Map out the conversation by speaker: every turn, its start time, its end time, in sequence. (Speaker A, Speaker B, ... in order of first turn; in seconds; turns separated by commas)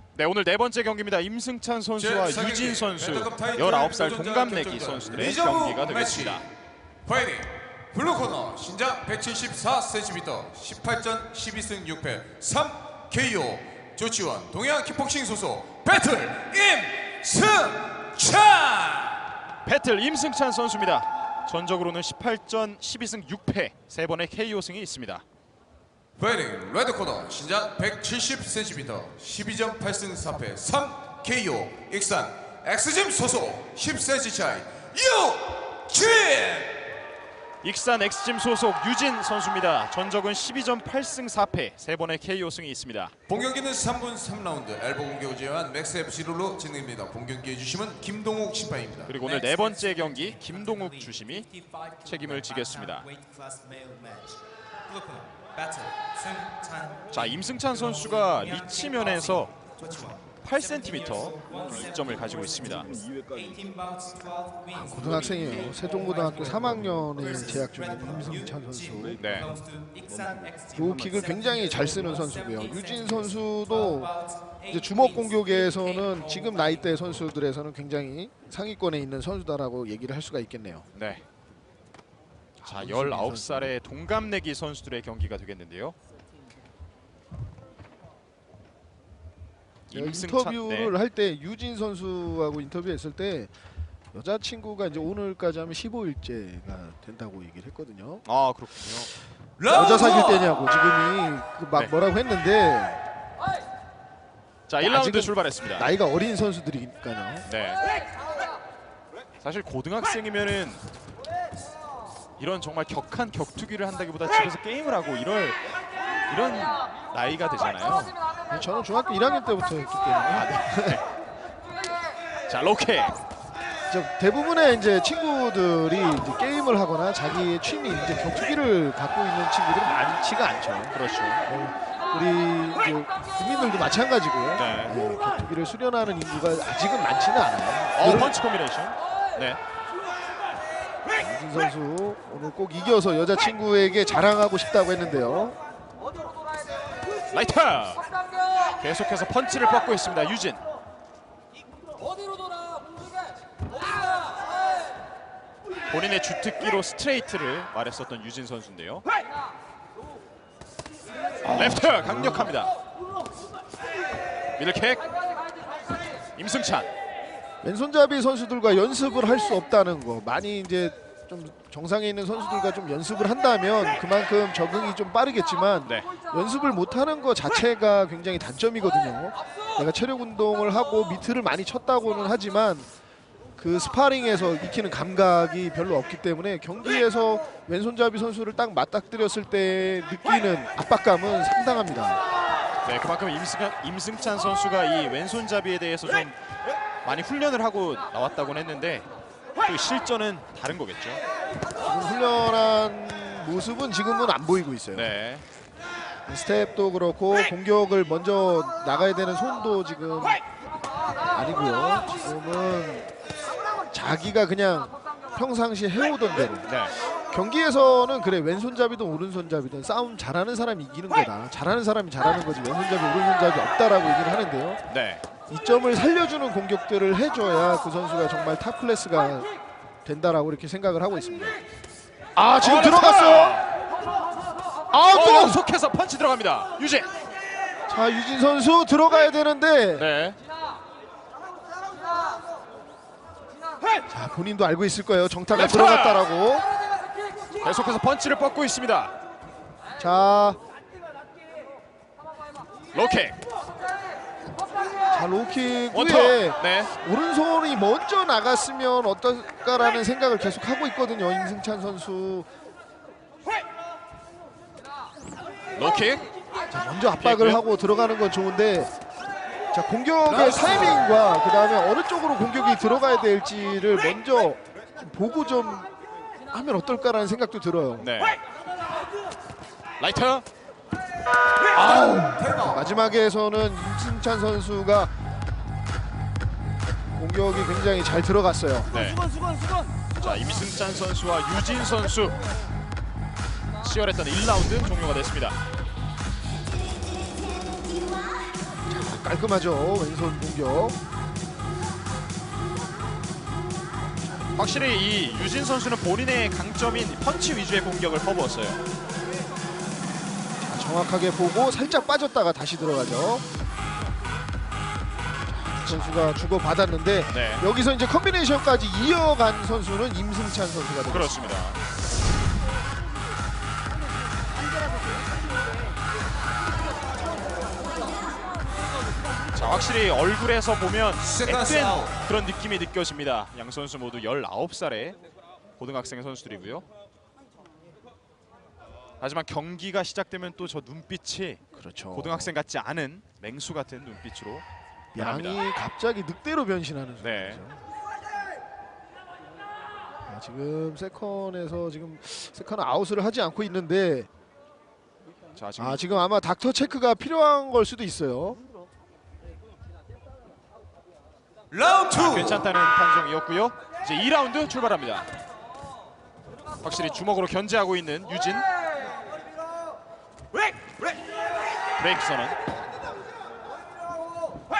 Speaker A: 0.1-6.4, Speaker B: 2.0-6.4, Speaker B: 7.0-19.2, Speaker A: 19.6-25.2, Speaker B: 26.2-36.8, Speaker A: 37.6-43.1, Speaker B: 43.3-49.2, Speaker A: 49.0-51.5, Speaker A: 52.0-53.1, Speaker A: 57.1-59.5, Speaker A: 60.4-62.9, Speaker C: 64.7-69.2, Speaker A: 69.2-69.5, Speaker C: 70.7-80.8, Speaker A: 80.9-81.2, Speaker C: 82.6-83.7, Speaker A: 82.6-85.9, Speaker A: 89.9-90.9, Speaker C: 89.9-93.5, Speaker C: 94.1-98.2, Speaker A: 98.2-99.1, Speaker B: 99.6-100.6, Speaker C: 99.7-103.0, Speaker A: 104.7-105.9, Speaker C: 104.8-107.5, Speaker A: 107.5-107.8, Speaker A: 109.4-110.8, Speaker A: 112.4-115.6, Speaker A: 116.3-118.1, Speaker C: 118.5-121.0, Speaker A: 120.3-121.0, Speaker A: 122.5-123.2, Speaker C: 123.9-138.3, Speaker A: 130.9-131.4, Speaker A: 134.6-134.9, Speaker A: 137.9-139.6, Speaker C: 141.1-145.6, Speaker A: 147.3-148.0, Speaker A: 148.8-150.6, Speaker A: 155.9-159.1, Speaker C: 161.4-162.5, Speaker A: 161.5-162.7, Speaker A: 164.6-165.1, Speaker A: 166.3-166.9, Speaker C: 167.6-182.9, Speaker C: 183.6-192.2, Speaker A: 192.8-196.4, Speaker A: 197.0-199.1, Speaker A: 199.6-201.2, Speaker C: 201.8-205.1, Speaker A: 204.9-205.4, Speaker C: 206.2-210.4, Speaker C: 211.3-213.1, Speaker C: 213.9-216.7, Speaker A: 216.6-216.9, Speaker C: 217.3-224.8, Speaker A: 224.9-225.2, Speaker C: 225.5-229.5, Speaker C: 230.0-231.6, Speaker C: 232.4-233.6, Speaker A: 232.5-233.7, Speaker C: 234.9-235.6, Speaker A: 234.9-237.1, Speaker C: 237.9-240.1, Speaker A: 239.9-240.4, Speaker C: 244.1-246.7, Speaker A: 245.5-246.2, Speaker A: 247.6-249.1, Speaker C: 250.0-250.6, Speaker A: 252.9-253.4, Speaker C: 255.1-262.5, Speaker A: 255.9-256.9, Speaker A: 265.7-266.3, Speaker C: 266.7-268.9, Speaker A: 267.2-267.6, Speaker C: 269.7-275.9, Speaker A: 270.3-270.9, Speaker C: 276.5-278.1, Speaker A: 278.0-278.4, Speaker A: 280.0-280.4, Speaker B: 281.8-282.8, Speaker C: 282.3-285.1, Speaker C: 287.1-288.9, Speaker A: 288.9-289.2, Speaker A: 290.1-292.4, Speaker A: 293.8-295.6, Speaker C: 298.9-301.0, Speaker A: 304.5-308.8, Speaker C: 310.6-313.4, Speaker A: 315.5-316.3, Speaker C: 315.8-321.6, Speaker A: 317.3-317.6, Speaker A: 321.1-321.8, Speaker A: 329.5-335.2, Speaker B: 331.2-332.1, Speaker A: 335.8-336.8, Speaker A: 339.2-341.6, Speaker C: 341.7-342.5, Speaker A: 342.1-345.6, Speaker C: 345.1-347.8, Speaker A: 347.2-347.6, Speaker C: 350.3-354.3, Speaker A: 355.6-356.0, Speaker C: 355.8-358.6, Speaker B: 361.7-362.7, Speaker A: 362.1-365.3, Speaker A: 366.8-368.7, Speaker A: 372.0-372.6